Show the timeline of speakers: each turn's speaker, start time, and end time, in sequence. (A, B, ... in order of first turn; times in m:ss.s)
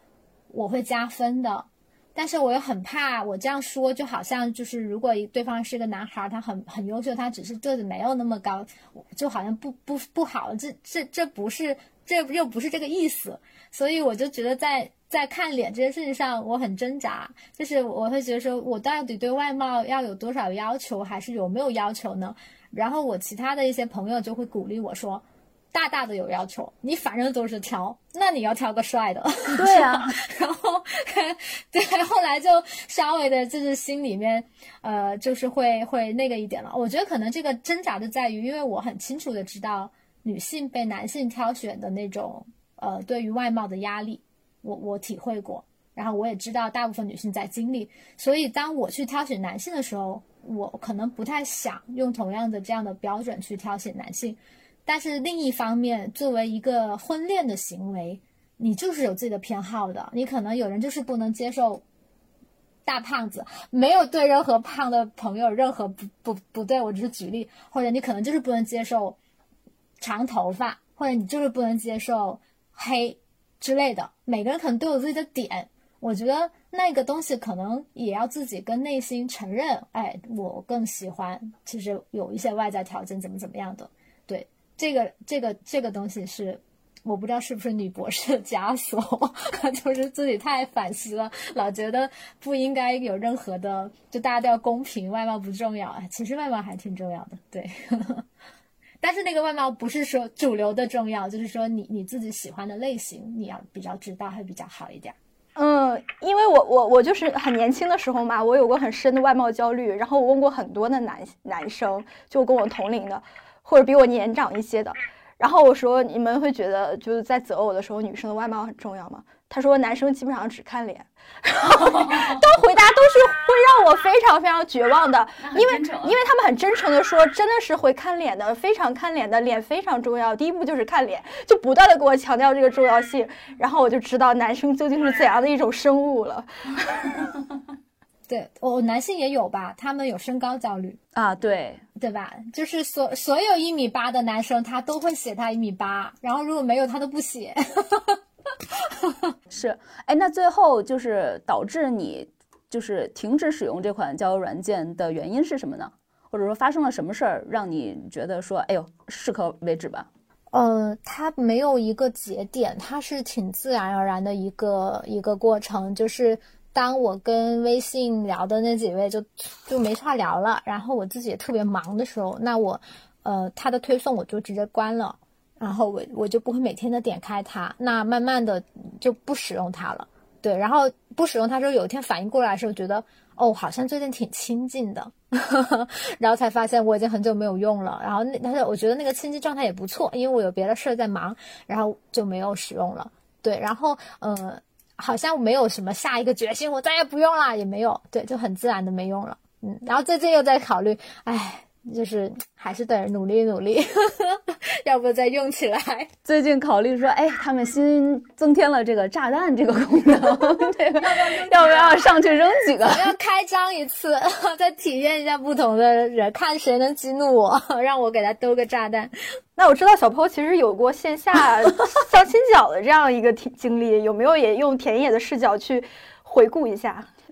0:00.5-1:01.8 A
0:29.5-0:30.2 B
1:02.8-1:09.2 A
1:10.0-1:38.2 A
1:39.0-1:45.2 A
1:45.6-2:17.2 C
2:01.6-2:02.4 B
2:05.4-2:06.2 B
2:18.3-2:21.0 A
2:21.1-2:21.8 B
2:22.0-2:29.3 A
2:29.5-2:40.1 B
2:40.5-3:26.1 A
3:26.2-3:33.1 B
3:32.9-3:39.1 A
3:39.6-3:47.1 C